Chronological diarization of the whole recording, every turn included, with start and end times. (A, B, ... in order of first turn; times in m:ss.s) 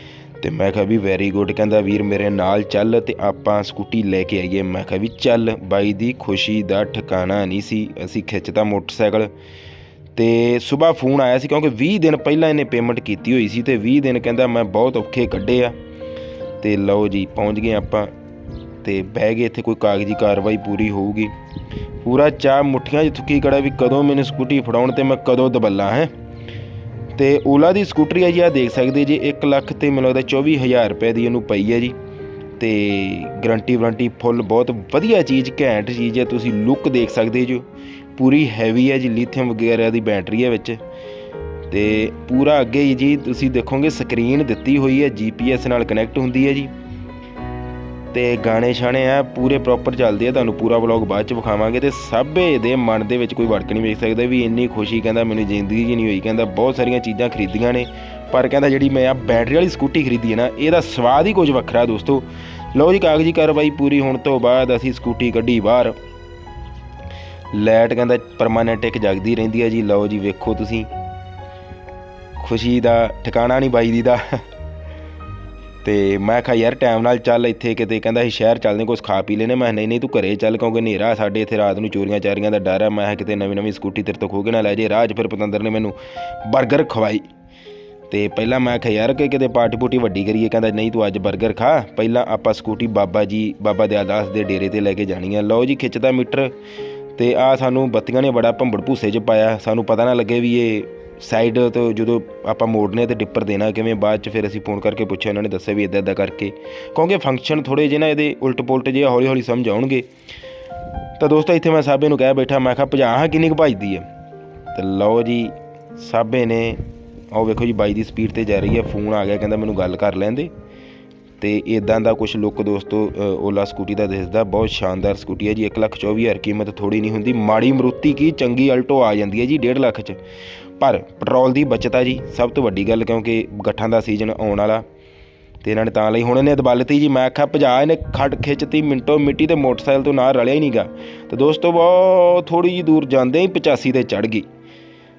0:00.4-0:09.3 A
0:10.1-0:15.8 A
0:16.6-0:18.1 A
0:18.8-0:21.3 A
0:22.0-0:26.1 A
0:27.2-0:32.0 A
0:32.6-0:40.8 A
0:41.7-0:46.7 A
0:48.1-1:06.0 A
1:07.5-1:10.9 A
1:12.4-1:14.4 A
1:15.8-1:27.3 A
1:28.1-1:36.5 A
1:37.2-1:50.1 A
1:51.2-1:54.1 A
1:54.7-2:00.5 A
2:01.4-2:10.2 A
2:10.8-2:14.8 A
2:15.6-2:24.5 A